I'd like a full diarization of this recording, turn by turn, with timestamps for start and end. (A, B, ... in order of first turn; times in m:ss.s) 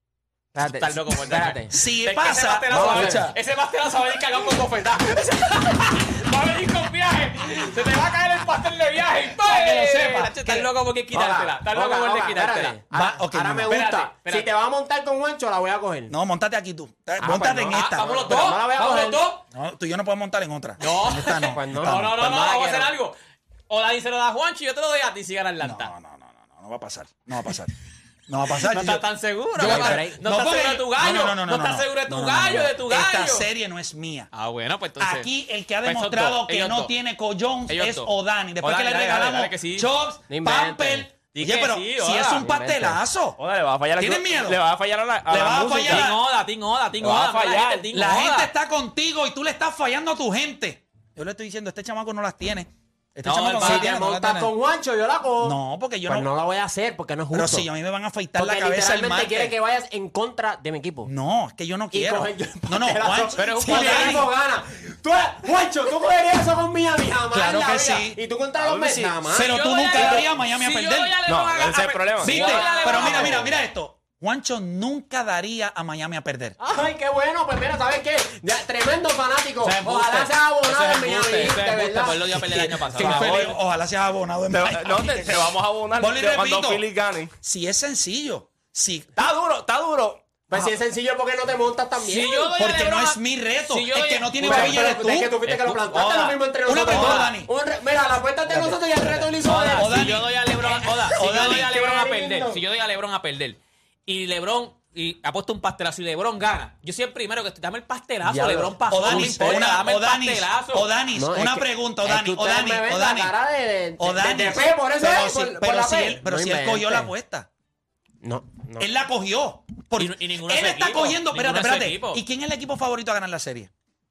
0:00.5-0:01.7 A
0:00.6-0:12.8 B
0:01.7-0:03.4 C
0:02.7-0:03.2 A
0:09.4-0:10.7 C
0:11.1-0:16.1 A
0:12.9-0:13.8 C
0:13.6-0:14.5 B
0:16.1-0:18.5 C
0:17.2-0:19.2 A
0:17.7-0:19.4 B
0:19.5-0:22.1 C
0:20.8-0:23.1 B
0:21.4-0:22.9 A
0:23.7-0:25.9 B
0:25.6-0:27.7 C
0:28.3-0:29.0 C
0:28.5-0:33.4 B
0:29.6-0:34.3 C
0:29.6-0:30.2 A
0:34.3-0:35.3 B
0:35.0-0:43.4 C
0:35.8-0:36.9 B
0:37.7-0:39.9 B
0:40.3-0:41.1 A
0:41.3-0:42.4 B
0:42.4-0:43.0 A
0:43.4-0:46.1 D
0:44.0-0:44.6 C
0:45.3-0:46.2 C
0:45.8-0:48.5 B
0:47.0-0:47.9 D
0:47.9-0:54.5 C
0:53.2-0:53.9 B
0:53.6-0:57.7 A
0:55.4-0:56.3 C
0:57.3-0:59.5 C
0:58.4-1:01.1 A
1:01.0-1:04.3 C
1:01.9-1:10.2 A
1:03.4-1:04.2 B
1:07.3-1:08.2 C
1:08.6-1:09.2 D
1:09.3-1:11.2 C
1:09.3-1:13.5 B
1:11.2-1:12.6 D
1:12.2-1:16.5 C
1:12.3-1:13.4 A
1:13.1-1:13.4 D
1:16.6-1:23.3 A
1:19.6-1:23.6 B
1:23.0-1:26.8 C
1:23.0-1:23.5 D
1:24.5-1:27.3 D
1:27.4-1:29.2 C
1:29.2-1:30.4 D
1:30.5-1:32.5 A
1:32.0-1:37.3 B
1:32.6-1:35.4 C
1:34.4-1:40.0 A
1:36.6-1:37.5 C
1:38.5-1:41.8 C
1:39.4-1:50.9 B
1:41.4-1:42.6 A
1:48.2-1:49.7 A
1:48.9-1:53.3 C
1:51.1-1:57.1 A
1:54.0-1:57.5 C
1:58.2-1:58.9 A
1:58.8-2:03.7 C
2:00.0-2:02.2 B